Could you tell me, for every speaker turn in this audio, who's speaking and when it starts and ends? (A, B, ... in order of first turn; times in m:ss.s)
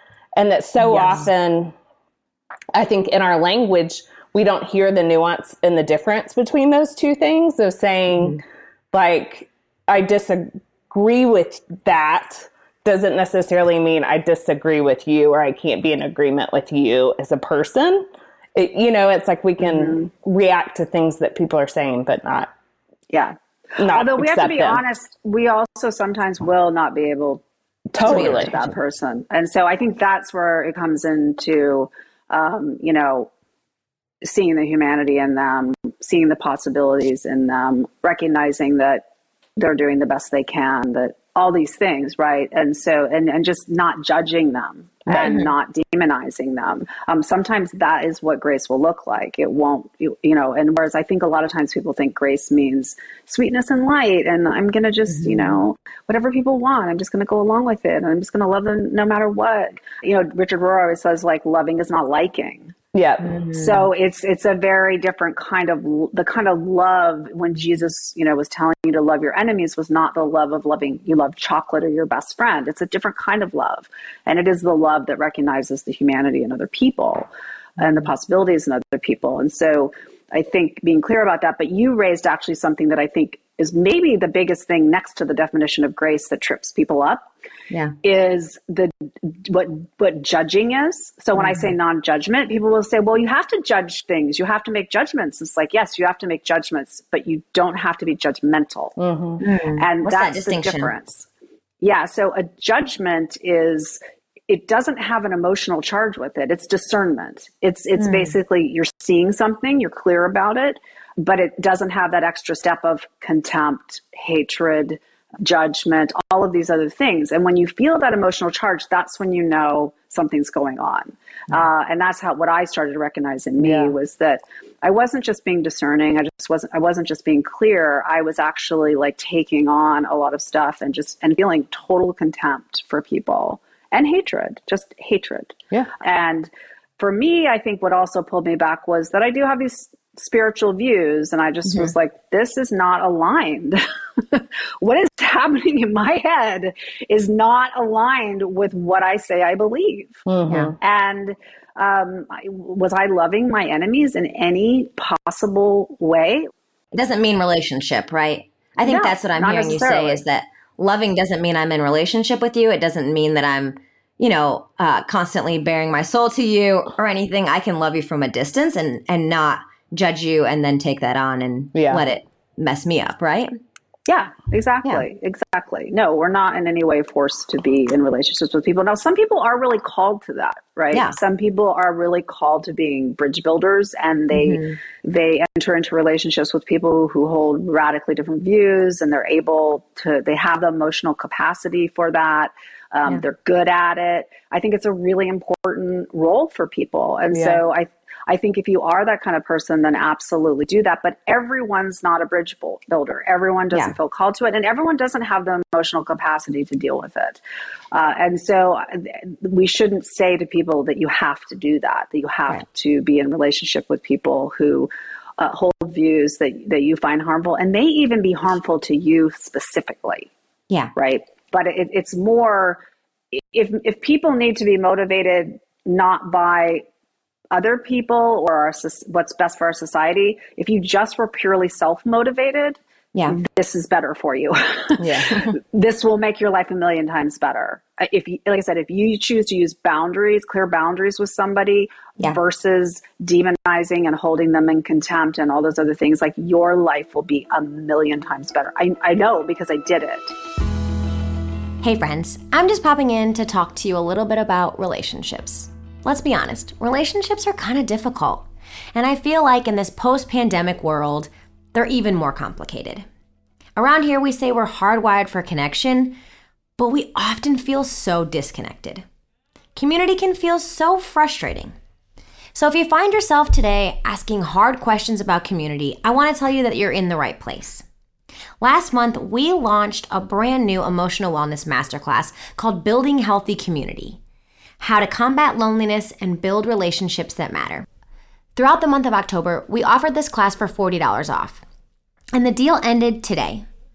0:00.4-0:01.7 A
0:00.8-0:01.3 B
0:02.7-0:08.4 A
0:08.1-0:08.4 B
0:08.9-0:22.5 A
0:19.6-0:20.1 C
0:23.1-0:27.4 C
0:23.8-0:24.8 A
0:27.9-0:28.5 A
0:28.0-0:33.3 C
0:28.0-0:28.7 B
0:34.2-0:39.0 C
0:39.6-1:02.8 C
0:45.1-0:45.3 A
0:45.2-0:45.5 B
0:55.2-0:55.5 B
1:02.9-1:03.3 A
1:03.2-1:03.8 B
1:03.5-1:27.3 C
1:28.0-1:39.0 C
1:31.4-1:31.7 B
1:39.0-1:39.4 A
1:39.4-1:40.9 B
1:39.8-1:41.3 C
1:41.8-2:30.2 C
1:48.0-1:48.4 B
2:03.6-2:03.9 A
2:30.3-2:30.8 A
2:30.8-2:36.5 C
2:36.9-2:53.5 B
2:38.8-2:40.2 C
2:51.7-2:52.0 A
2:54.1-3:27.4 C
3:00.9-3:01.2 B
3:04.3-3:04.8 B
3:17.3-3:17.6 A
3:27.9-3:40.3 C
3:41.0-3:42.8 C
3:43.3-3:46.8 C
3:47.5-4:10.4 C
3:55.0-3:55.5 A
4:11.8-4:23.0 B
4:23.8-4:26.2 B
4:26.8-4:29.0 B
4:29.8-4:31.7 B
4:32.6-4:37.8 B
4:38.6-4:44.2 B
4:44.8-4:47.9 B
4:48.6-4:51.6 B
4:52.3-4:53.7 B